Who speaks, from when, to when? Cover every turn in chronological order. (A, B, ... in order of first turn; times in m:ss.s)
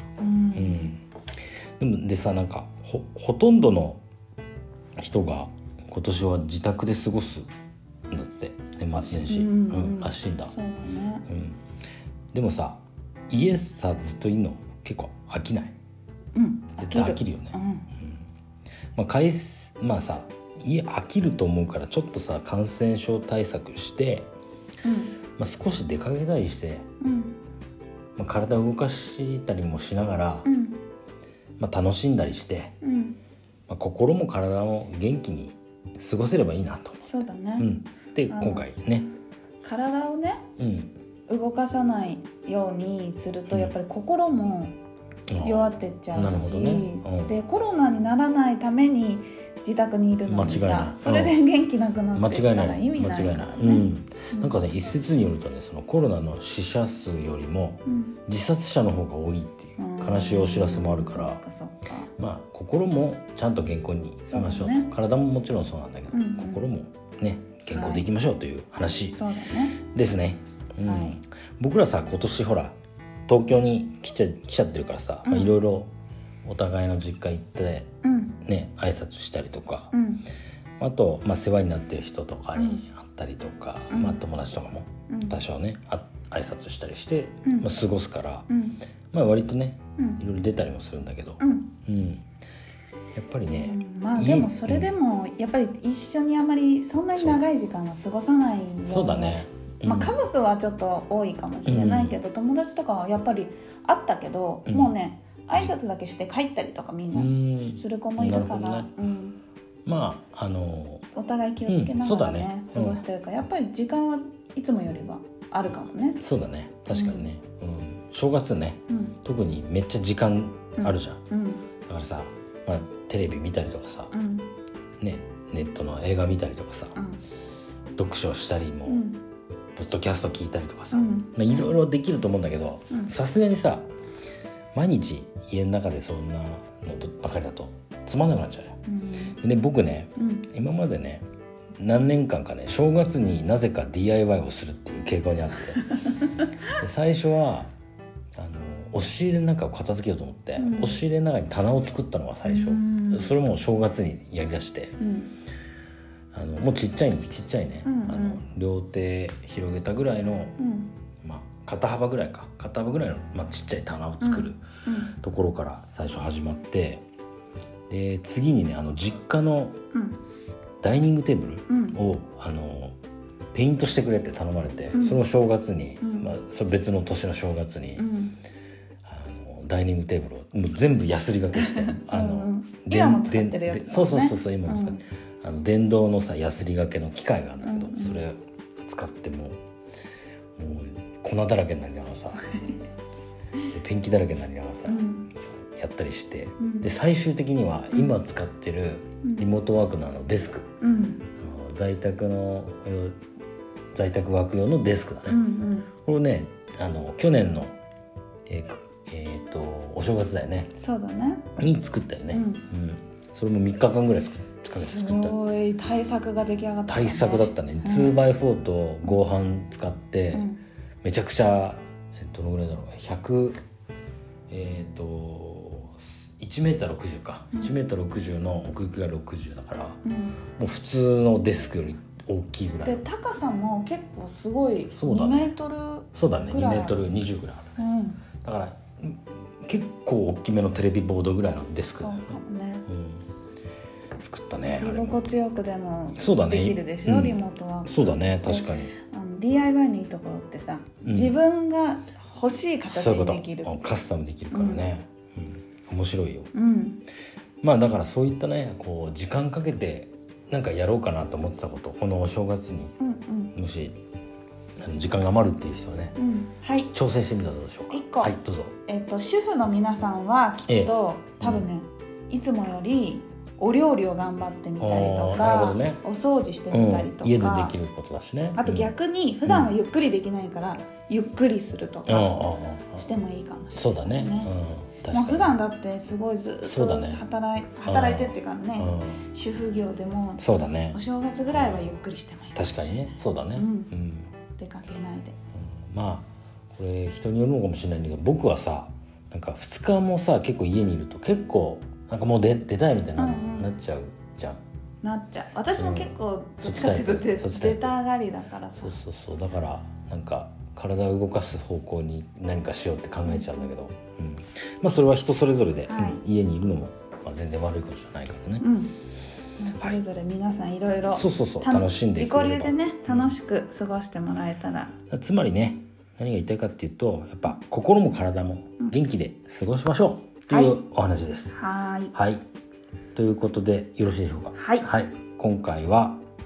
0:00.2-0:01.0 A
0:00.6-0:01.0 B
0:01.8-0:04.0 B
0:05.0-0:07.5 B
0:08.1-0:10.5 B
0:09.0-0:11.3 A
0:11.3-0:11.6 B
0:12.3-0:15.8 B
0:16.4-0:17.9 A
0:16.8-0:18.1 B
0:19.0-0:24.3 B
0:24.8-0:25.2 A
0:25.4-0:26.9 B
0:27.0-0:27.4 A
0:28.2-0:30.5 B
0:30.4-0:30.8 A
0:31.6-0:32.8 B
0:32.8-0:33.2 A
0:33.7-0:37.0 B
0:37.0-0:37.7 A
0:37.6-0:39.1 B
0:38.3-0:38.6 A
0:39.6-0:40.5 A
0:40.6-0:40.9 B
0:41.3-0:44.8 A
0:43.5-0:43.8 B
0:45.3-0:47.3 B
0:45.4-0:54.6 A
0:50.3-0:51.4 B
0:52.1-1:01.4 B
0:57.9-0:58.2 A
0:59.8-1:02.1 A
1:02.2-1:09.2 B
1:04.3-1:04.9 A
1:06.1-1:06.6 A
1:07.7-1:08.1 A
1:09.0-1:09.8 A
1:09.8-1:12.8 B
1:10.9-1:11.2 A
1:13.3-1:15.9 B
1:15.2-1:15.5 A
1:16.4-1:17.9 B
1:18.0-1:18.4 A
1:18.4-1:19.9 B
1:19.9-1:20.3 A
1:20.8-1:28.5 B
1:22.6-1:22.8 A
1:23.9-1:24.2 A
1:25.1-1:25.4 A
1:28.5-1:28.8 A
1:29.1-1:32.2 B
1:31.4-1:31.7 A
1:33.1-1:34.9 B
1:33.6-1:49.4 A
1:37.2-1:37.4 B
1:38.9-1:40.2 B
1:41.7-1:42.2 B
1:44.7-1:44.9 B
1:47.1-1:48.9 B
1:49.9-1:51.1 B
1:51.2-1:56.2 A
1:51.7-1:53.0 B
1:56.2-2:01.2 B
1:56.9-1:57.3 A
1:58.9-1:59.2 A
2:00.8-2:01.6 A
2:01.9-2:04.1 B
2:04.1-2:04.5 A
2:05.0-2:07.0 B
2:07.0-2:07.2 A
2:08.0-2:09.0 B
2:08.9-2:09.2 A
2:09.8-2:13.9 B
2:10.9-2:11.3 A
2:14.7-2:18.8 B
2:18.9-2:19.4 A
2:19.3-2:21.2 B
2:20.2-2:20.4 A
2:21.8-2:25.9 B
2:26.8-2:27.7 B
2:28.4-2:35.0 B
2:30.6-2:31.0 A
2:32.4-2:33.4 A
2:35.0-2:35.3 A
2:36.3-2:40.6 B
2:37.8-2:38.4 A
2:40.6-2:40.9 A
2:41.2-2:44.6 B
2:44.2-2:45.1 A
2:45.2-2:47.0 B
2:47.9-2:49.8 B
2:49.9-2:50.2 A
2:50.8-2:53.0 B
2:51.7-2:52.0 A
2:53.5-2:58.1 B
2:54.9-2:55.2 A
2:56.0-2:56.3 A
2:58.0-2:58.4 A
2:59.0-3:09.6 B
3:01.6-3:05.0 A
3:07.6-3:08.2 A
3:10.6-3:12.4 B
3:13.7-3:20.7 B
3:14.9-3:15.3 A
3:16.6-3:16.9 A
3:20.8-3:21.3 A
3:21.4-3:23.2 B
3:24.0-3:25.4 B
3:25.3-3:25.9 A
3:26.0-3:27.7 B
3:28.5-3:30.7 B
3:30.8-3:31.5 A
3:31.6-3:35.4 B
3:32.3-3:32.6 A
3:34.7-3:38.3 A
3:36.9-3:40.5 B
3:40.3-3:40.6 A
3:41.0-3:43.6 B
3:44.5-3:50.0 B
3:50.0-3:50.4 A
3:50.6-3:53.0 B
3:52.8-3:57.0 A
3:54.9-3:55.6 B
3:56.1-3:57.8 B
3:57.8-3:58.2 A
3:58.4-4:03.2 B
4:02.0-4:02.9 A
4:04.2-4:05.2 B
4:04.8-4:13.9 A
4:06.2-4:08.9 B
4:11.0-4:11.4 B
4:12.9-4:16.5 B
4:14.5-4:14.9 A
4:16.5-4:17.0 A
4:17.6-4:23.0 B
4:23.0-4:23.6 A
4:23.5-4:24.0 B
4:24.8-4:26.2 B
4:26.2-4:26.9 A
4:26.9-4:28.8 B
4:27.9-4:37.8 A
4:30.7-4:31.7 B
4:34.8-4:36.0 B
4:36.7-4:38.9 B
4:38.6-4:44.5 A
4:42.1-4:43.0 B
4:43.8-4:45.6 B
4:45.1-4:53.9 A
4:46.6-4:47.2 B
4:47.8-4:49.2 B
4:50.4-4:51.9 B
4:52.6-4:54.3 B
4:54.6-4:55.4 A
4:55.7-5:04.6 B
5:03.2-5:03.7 A
5:05.0-5:09.0 A
5:05.8-5:07.9 B
5:08.8-5:18.7 B
5:13.3-5:13.6 A
5:15.9-5:16.2 A
5:18.6-5:19.0 A
5:19.6-5:25.0 A
5:21.1-5:23.3 B
5:25.1-5:31.6 B
5:30.5-5:30.8 A
5:31.6-5:32.1 A
5:32.1-5:32.4 B
5:33.1-5:36.2 B
5:34.6-5:34.9 A